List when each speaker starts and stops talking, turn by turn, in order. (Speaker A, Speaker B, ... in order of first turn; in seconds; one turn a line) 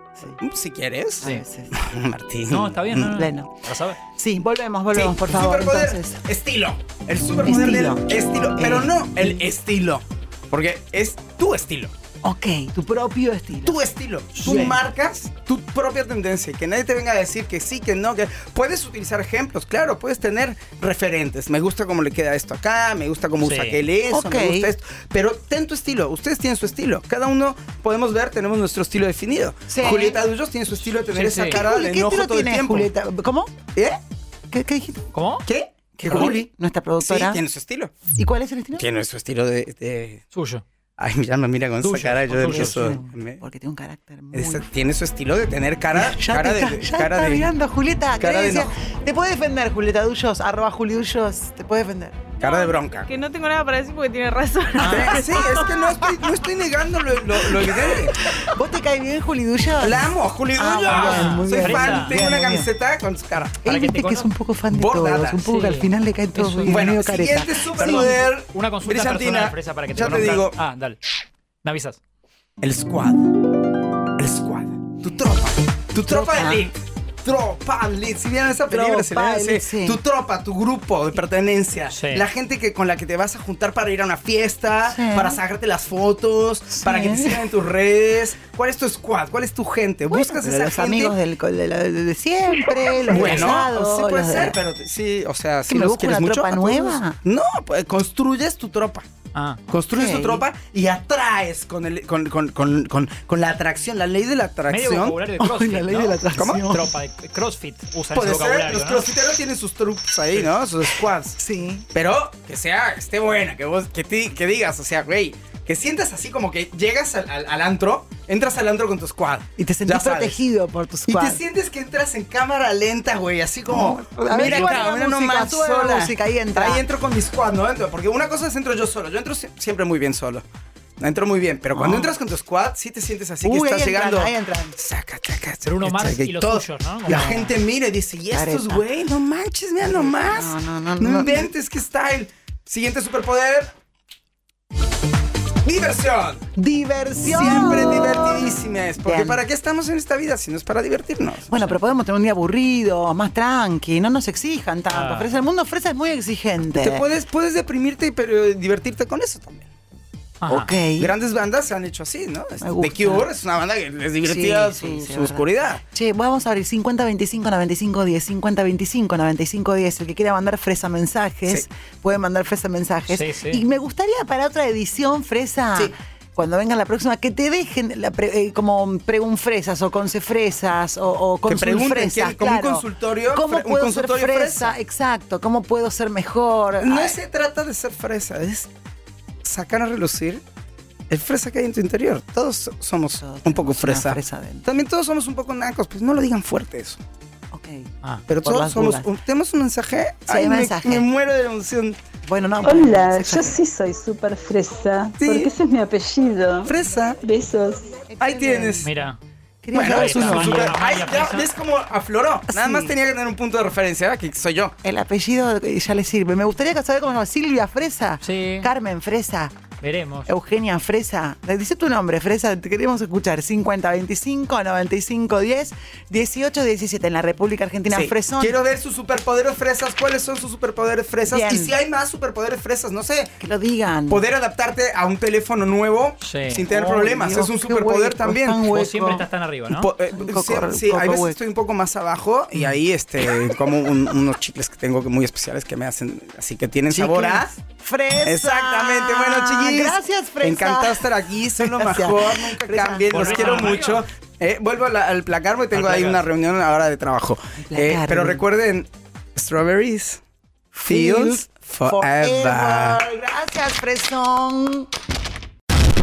Speaker A: 0.4-3.2
Speaker B: 1.2-1.8
Speaker C: 2.5-4.0
Speaker B: 3.1-3.5
Speaker B: 4.2-6.2
Speaker A: 4.9-11.9
Speaker B: 7.5-9.4
Speaker B: 12.2-13.8
Speaker A: 13.6-32.9
Speaker C: 14.3-14.8
Speaker B: 14.4-14.8
Speaker C: 23.4-23.8
Speaker B: 24.1-24.7
Speaker B: 29.7-30.2
Speaker C: 31.1-31.6
Speaker B: 31.5-33.5
Speaker A: 33.8-34.0
Speaker B: 34.5-35.1
Speaker C: 35.1-35.5
Speaker A: 35.5-36.5
Speaker B: 36.0-37.4
Speaker A: 37.0-38.0
Speaker B: 38.1-38.9
Speaker A: 38.7-40.2
Speaker C: 40.3-40.6
Speaker A: 41.0-43.4
Speaker C: 41.8-43.0
Speaker B: 42.4-44.7
Speaker A: 44.3-47.5
Speaker B: 45.9-52.3
Speaker A: 48.2-48.7
Speaker A: 52.4-53.1
Speaker D: 52.4-54.6
Speaker C: 54.8-55.3
Speaker A: 54.9-58.2
Speaker B: 57.8-62.7
Speaker A: 59.8-63.6
Speaker C: 60.8-62.2
Speaker B: 63.6-68.2
Speaker C: 63.6-64.3
Speaker A: 64.7-65.4
Speaker C: 65.4-66.8
Speaker A: 66.7-70.6
Speaker C: 67.8-71.0
Speaker C: 71.6-72.0
Speaker A: 72.6-73.3
Speaker A: 74.2-91.2
Speaker B: 76.1-76.7
Speaker B: 78.7-80.0
Speaker C: 81.9-82.2
Speaker B: 84.9-85.4
Speaker B: 86.7-87.5
Speaker B: 90.1-94.6
Speaker A: 93.0-99.1
Speaker B: 95.7-97.2
Speaker C: 99.3-99.6
Speaker A: 99.7-105.2
Speaker B: 99.9-100.5
Speaker C: 104.7-109.0
Speaker B: 105.4-106.9
Speaker A: 106.4-106.7
Speaker A: 108.1-111.4
Speaker B: 111.4-111.9
Speaker A: 111.9-120.4
Speaker B: 119.6-121.4
Speaker A: 121.1-130.4
Speaker B: 123.7-126.8
Speaker C: 124.5-124.8
Speaker A: 131.0-143.7
Speaker B: 131.7-132.2
Speaker B: 133.4-134.8
Speaker C: 135.6-137.5
Speaker B: 137.1-137.5
Speaker B: 138.3-138.8
Speaker B: 139.8-141.5
Speaker A: 145.6-146.5
Speaker B: 146.6-149.4
Speaker A: 147.2-151.6
Speaker B: 151.5-157.1
Speaker C: 154.9-155.3
Speaker A: 156.8-159.7
Speaker C: 160.4-160.7
Speaker B: 160.5-161.1
Speaker A: 161.0-165.8
Speaker B: 162.6-163.3
Speaker B: 164.2-187.2
Speaker C: 173.1-173.6
Speaker A: 181.4-184.8
Speaker A: 186.8-188.7
Speaker A: 189.4-190.4
Speaker A: 191.1-197.0
Speaker B: 193.2-194.7
Speaker B: 197.5-197.9
Speaker A: 198.3-202.0
Speaker B: 198.4-199.1
Speaker B: 200.3-201.1
Speaker B: 202.2-203.6
Speaker E: 202.7-206.7
Speaker A: 205.2-205.5
Speaker A: 206.7-207.2
Speaker E: 207.2-207.9
Speaker B: 208.1-208.9
Speaker A: 208.2-208.9
Speaker C: 208.8-209.2
Speaker B: 209.6-210.8
Speaker A: 209.7-214.7
Speaker C: 209.8-211.5
Speaker B: 212.5-212.9
Speaker B: 214.8-219.6
Speaker C: 218.2-218.7
Speaker C: 219.8-220.3
Speaker B: 220.3-228.6
Speaker A: 227.9-233.4
Speaker B: 231.3-231.8
Speaker B: 233.4-234.2
Speaker A: 234.1-238.7
Speaker C: 236.2-236.8
Speaker B: 236.7-239.2
Speaker C: 238.7-239.9
Speaker A: 239.7-247.5
Speaker B: 240.1-241.4
Speaker B: 246.9-253.7
Speaker A: 248.2-260.2
Speaker C: 253.1-254.0
Speaker C: 255.7-256.2
Speaker B: 257.6-258.4
Speaker A: 260.8-263.1
Speaker B: 260.8-264.9